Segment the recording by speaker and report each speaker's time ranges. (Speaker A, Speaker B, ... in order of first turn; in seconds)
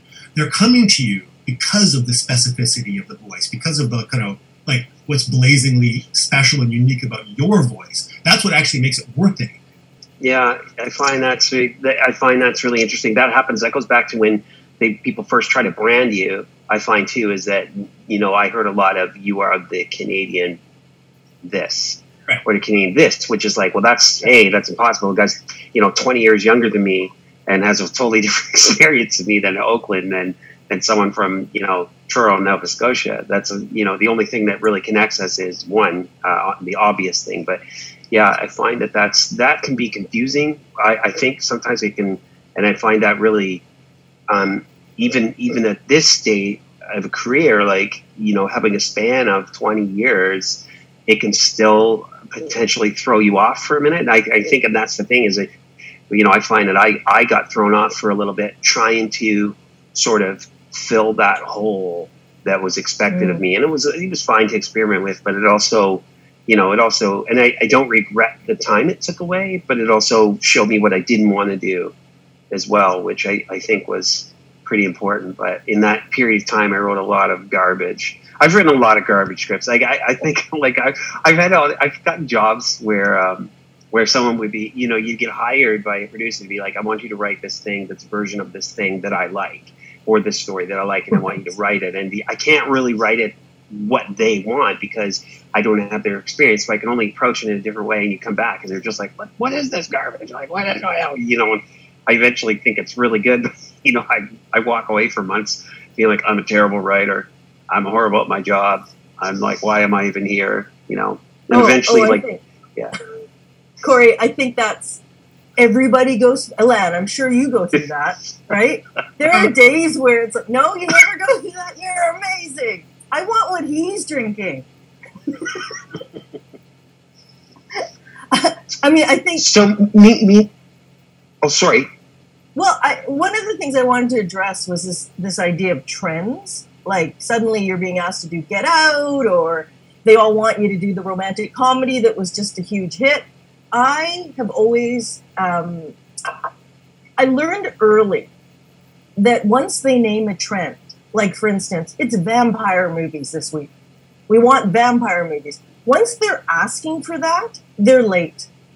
Speaker A: 0.3-9.6
Speaker B: 10.2-20.6, 21.4-43.6, 44.3-55.5, 56.1-72.0, 72.5-112.9, 129.4-130.5, 131.4-131.9
Speaker C: 63.1-63.4, 111.5-112.4, 113.8-115.0, 115.6-124.7, 128.3-129.5, 132.6-145.9, 147.2-148.3, 149.2-153.7, 154.3-158.5